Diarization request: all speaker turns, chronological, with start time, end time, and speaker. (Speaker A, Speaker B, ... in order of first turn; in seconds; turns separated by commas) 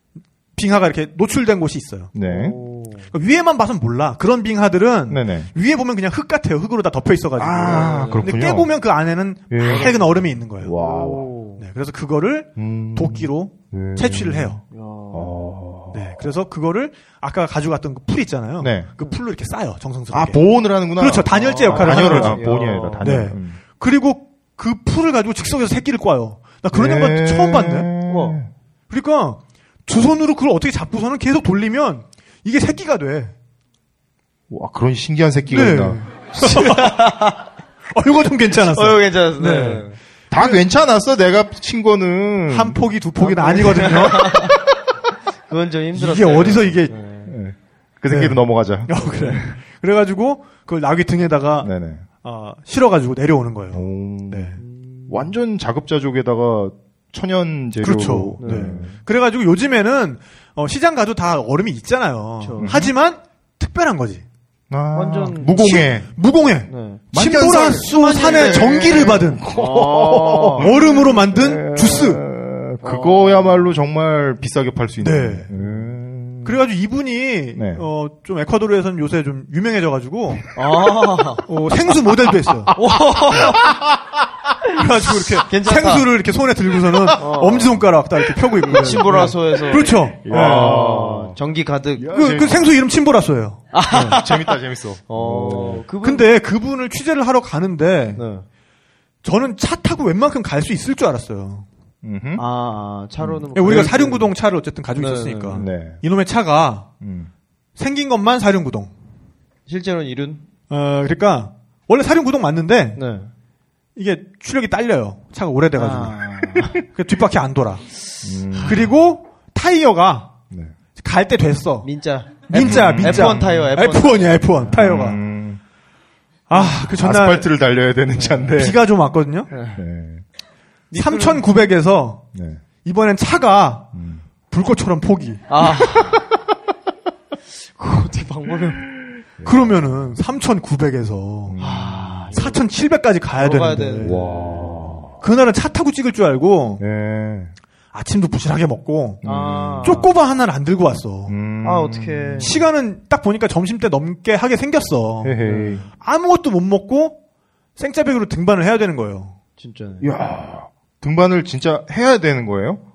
Speaker A: 0.6-2.1, Speaker B: 2.1-2.6, Speaker C: 2.2-3.1, Speaker A: 3.1-10.8, Speaker B: 5.1-5.5, Speaker B: 7.4-8.7, Speaker C: 7.6-8.3, Speaker B: 9.5-10.1, Speaker C: 9.6-10.0, Speaker B: 10.6-11.3, Speaker C: 10.8-11.6, Speaker A: 11.6-14.6, Speaker B: 12.6-14.6, Speaker C: 14.7-15.3, Speaker B: 15.1-16.1, Speaker A: 15.9-27.9, Speaker B: 18.6-18.9, Speaker B: 20.1-23.6, Speaker C: 21.3-23.1, Speaker B: 26.7-28.5, Speaker C: 28.1-28.4, Speaker A: 28.9-33.3, Speaker B: 34.5-36.0, Speaker A: 35.5-37.2, Speaker C: 36.4-37.4, Speaker A: 37.9-40.6, Speaker C: 38.7-40.0, Speaker B: 40.3-42.8, Speaker A: 42.5-44.6, Speaker C: 43.2-44.5, Speaker C: 45.5-47.4, Speaker A: 45.9-46.9, Speaker B: 47.3-49.4, Speaker A: 48.1-51.7, Speaker B: 51.6-52.0, Speaker A: 52.2-54.6, Speaker B: 53.7-58.9, Speaker C: 54.6-55.3, Speaker A: 57.8-64.2, Speaker C: 58.4-59.0, Speaker C: 62.4-62.7, Speaker B: 62.6-62.9, Speaker B: 64.7-66.1, Speaker C: 64.9-65.8, Speaker A: 65.6-69.5, Speaker C: 66.7-67.0, Speaker B: 67.1-76.6, Speaker C: 67.7-70.7, Speaker A: 70.6-72.2, Speaker C: 72.8-73.7, Speaker A: 75.0-75.5, Speaker C: 75.5-75.9, Speaker A: 76.5-80.5, Speaker B: 77.6-77.9, Speaker C: 80.5-81.4, Speaker A: 81.5-82.8, Speaker C: 82.7-83.7, Speaker B: 83.3-83.9, Speaker A: 84.7-90.9, Speaker C: 85.4-86.1, Speaker C: 87.2-87.8, Speaker C: 88.7-92.2, Speaker B: 90.2-91.4, Speaker B: 92.0-92.7, Speaker A: 92.1-94.2, Speaker C: 93.7-96.3, Speaker B: 93.9-95.8, Speaker A: 96.0-98.2, Speaker C: 98.2-98.5, Speaker A: 99.2-101.7, Speaker B: 102.0-102.4, Speaker C: 102.4-104.3, Speaker B: 103.2-103.9, Speaker A: 103.5-106.9, Speaker C: 105.0-105.7, Speaker B: 105.5-106.0, Speaker B: 107.0-107.3, Speaker A: 107.8-108.9, Speaker C: 109.7-110.4, Speaker A: 110.7-113.0, Speaker C: 113.0-113.3, Speaker A: 114.0-117.9, Speaker C: 115.8-116.8, Speaker B: 118.2-118.9, Speaker A: 118.6-120.4, Speaker A: 121.0-121.9, Speaker C: 121.8-124.7, Speaker A: 122.5-125.2, Speaker B: 122.5-123.6, Speaker B: 124.7-125.6, Speaker A: 126.5-127.5, Speaker B: 126.6-128.8, Speaker C: 128.2-128.5, Speaker A: 128.6-129.5, Speaker C: 129.5-129.8, Speaker B: 129.8-130.2, Speaker C: 130.9-131.4, Speaker A: 130.9-132.2, Speaker B: 132.3-132.6, Speaker A: 132.8-133.9, Speaker B: 133.9-134.2, Speaker A: 134.5-135.4, Speaker C: 135.5-136.2, Speaker C: 137.8-138.9, Speaker B: 139.4-140.1, Speaker A: 139.4-141.6, Speaker B: 141.5-142.3, Speaker C: 141.6-142.6, Speaker A: 142.3-144.3, Speaker C: 143.4-144.9, Speaker B: 144.0-145.2, Speaker A: 145.2-146.8, Speaker B: 146.8-147.5, Speaker A: 147.9-149.2, Speaker B: 149.2-150.1, Speaker C: 149.2-150.1, Speaker A: 149.8-151.3, Speaker B: 151.3-152.5, Speaker C: 151.6-152.6, Speaker A: 152.4-155.4, Speaker B: 155.2-155.8, Speaker C: 155.4-155.9, Speaker A: 155.9-157.2, Speaker A: 157.8-159.4, Speaker C: 159.6-160.1, Speaker B: 160.0-162.8